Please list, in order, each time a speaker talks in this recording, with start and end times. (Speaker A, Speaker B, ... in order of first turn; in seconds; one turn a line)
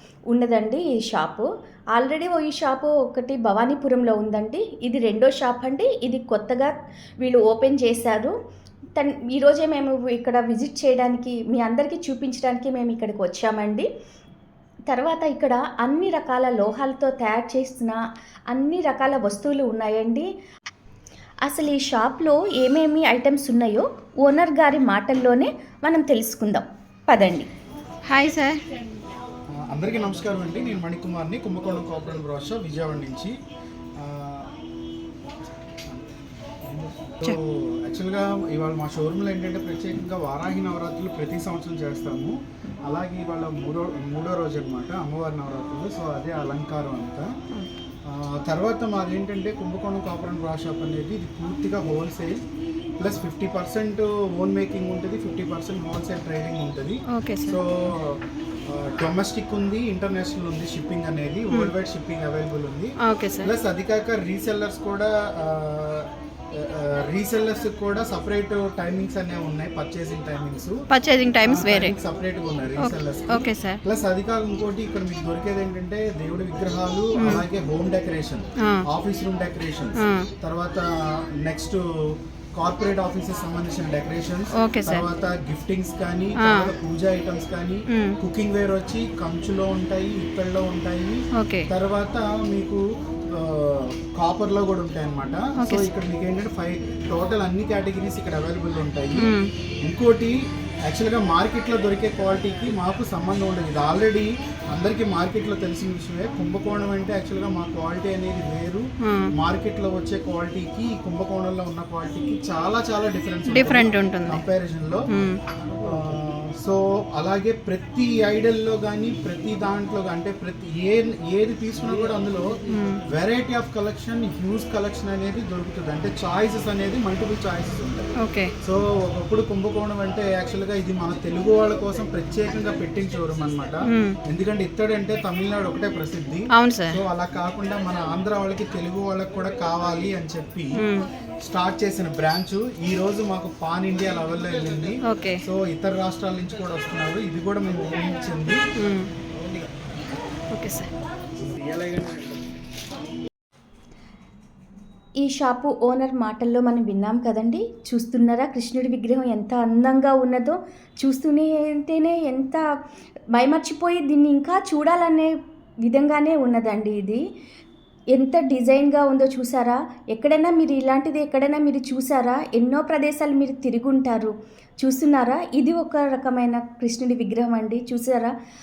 Speaker A: 0.3-8.3
Speaker A: 9.0-13.9
Speaker A: 14.9-18.0
Speaker A: 18.5-20.3
Speaker A: 21.4-27.5
Speaker B: 28.1-28.6
Speaker C: 29.6-33.3
Speaker C: 34.0-34.5
Speaker C: 36.6-42.4
Speaker C: 42.9-47.3
Speaker C: 48.1-52.4
Speaker C: 53.0-70.8
Speaker B: 57.1-57.6
Speaker B: 63.0-63.5
Speaker B: 70.9-72.0
Speaker C: 71.4-80.9
Speaker B: 72.8-73.8
Speaker B: 77.2-77.4
Speaker B: 80.0-80.3
Speaker C: 81.4-115.1
Speaker B: 84.6-85.1
Speaker B: 86.4-86.7
Speaker B: 87.9-88.2
Speaker B: 91.4-91.7
Speaker B: 95.6-95.9
Speaker B: 99.2-99.5
Speaker B: 113.5-114.4
Speaker B: 115.1-115.4
Speaker C: 115.8-128.1
Speaker B: 122.7-123.0
Speaker B: 128.2-128.5
Speaker C: 128.6-140.8
Speaker B: 133.9-134.2
Speaker B: 136.5-137.0
Speaker B: 140.8-141.1
Speaker C: 141.4-148.6
Speaker B: 145.1-145.4
Speaker B: 148.8-149.1
Speaker C: 149.4-149.7
Speaker B: 150.5-150.9
Speaker C: 151.4-152.4
Speaker A: 155.2-162.6
Speaker A: 163.3-165.3
Speaker A: 165.8-167.2
Speaker A: 168.1-178.3